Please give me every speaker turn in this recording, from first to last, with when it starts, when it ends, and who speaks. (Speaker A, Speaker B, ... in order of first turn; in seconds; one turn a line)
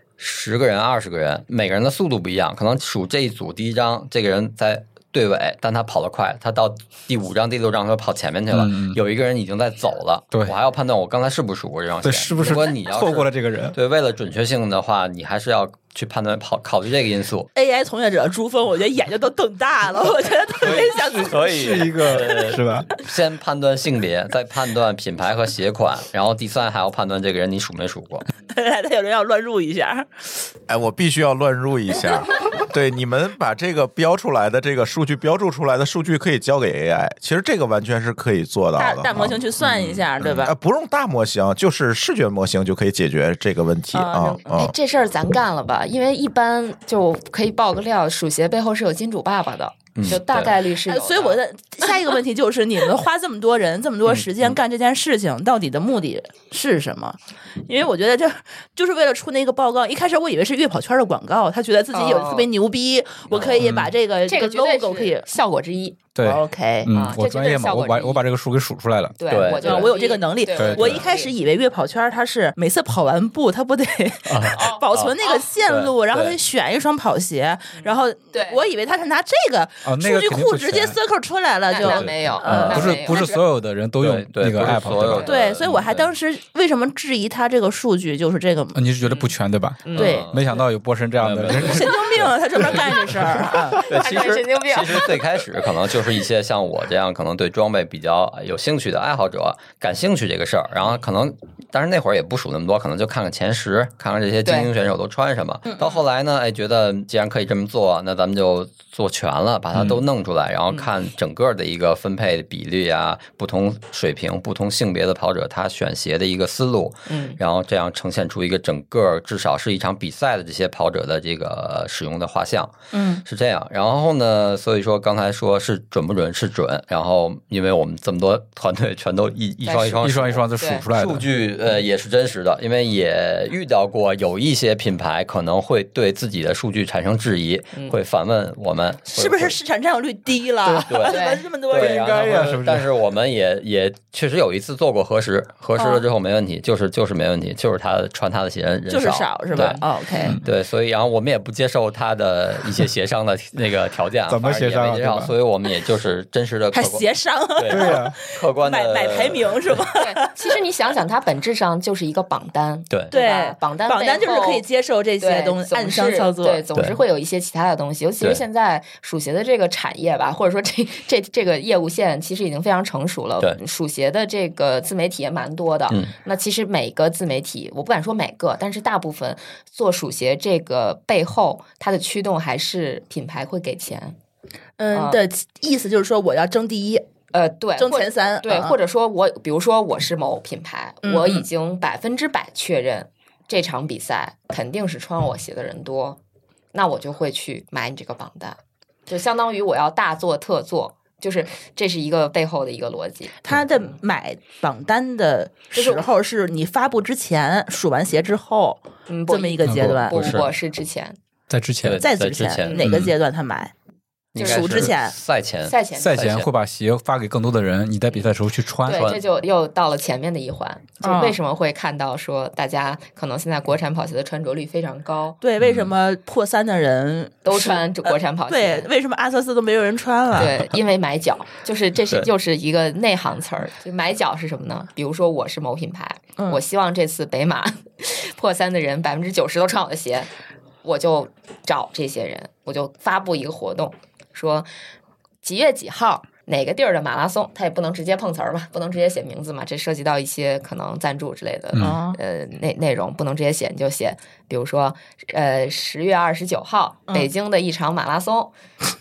Speaker A: 0.2-17.5
Speaker B: 8.5-9.0
Speaker B: 12.0-13.8
Speaker C: 17.5-21.7
Speaker B: 20.6-22.9
Speaker A: 20.7-28.3
Speaker C: 28.5-30.5
Speaker D: 30.7-39.4
Speaker C: 38.8-40.5
Speaker A: 39.6-40.0
Speaker D: 40.2-44.7
Speaker C: 43.9-44.4
Speaker E: 44.4-51.4
Speaker A: 50.0-50.5
Speaker C: 50.9-65.3
Speaker A: 54.0-54.6
Speaker E: 61.9-62.5
Speaker A: 63.3-63.9
Speaker B: 63.6-63.9
Speaker E: 64.3-66.0
Speaker B: 66.1-69.2
Speaker C: 66.2-66.9
Speaker E: 66.9-68.2
Speaker E: 69.2-71.3
Speaker A: 69.3-69.9
Speaker C: 69.6-83.4
Speaker B: 70.5-71.0
Speaker A: 74.2-76.4
Speaker E: 74.5-75.5
Speaker E: 77.7-78.6
Speaker B: 79.8-81.0
Speaker E: 81.7-83.4
Speaker A: 81.8-82.9
Speaker B: 82.4-85.3
Speaker A: 84.0-86.1
Speaker C: 85.2-88.8
Speaker B: 88.7-92.0
Speaker E: 89.1-89.3
Speaker E: 89.8-90.3
Speaker C: 90.0-90.3
Speaker A: 90.0-90.5
Speaker A: 91.2-93.1
Speaker C: 91.5-93.8
Speaker E: 93.7-95.1
Speaker A: 93.8-139.6
Speaker E: 117.1-117.4
Speaker C: 122.9-123.2
Speaker E: 129.6-130.0
Speaker B: 130.0-131.3
Speaker E: 130.6-130.8
Speaker C: 139.1-142.2
Speaker A: 140.9-159.8
Speaker E: 141.1-141.4
Speaker B: 141.8-142.9
Speaker C: 145.8-146.0
Speaker C: 148.9-150.4
Speaker B: 150.2-150.4
Speaker B: 154.3-155.3
Speaker C: 156.7-160.3
Speaker B: 157.7-158.2
Speaker E: 159.9-164.6
Speaker C: 163.1-166.6
Speaker E: 165.2-184.2
Speaker C: 184.8-187.0
Speaker E: 184.9-185.2
Speaker E: 187.3-196.2
Speaker C: 187.8-188.7
Speaker C: 191.0-191.4
Speaker E: 196.7-203.9
Speaker C: 203.4-210.3
Speaker E: 205.7-206.0
Speaker E: 209.1-211.2
Speaker B: 209.7-209.9
Speaker A: 210.0-210.5
Speaker B: 211.5-212.1
Speaker A: 211.8-213.1
Speaker C: 211.9-213.7
Speaker E: 212.6-212.9
Speaker B: 212.8-213.1
Speaker A: 214.3-216.5
Speaker E: 214.3-214.9
Speaker C: 214.4-215.1
Speaker E: 215.6-216.2
Speaker B: 216.0-219.1
Speaker E: 218.8-225.4
Speaker A: 218.9-219.2
Speaker C: 221.0-221.4
Speaker C: 225.4-230.7
Speaker A: 225.6-225.9
Speaker E: 227.4-228.9
Speaker E: 230.3-240.3
Speaker E: 240.8-244.7
Speaker E: 245.4-258.5
Speaker B: 251.7-252.0
Speaker C: 251.8-252.2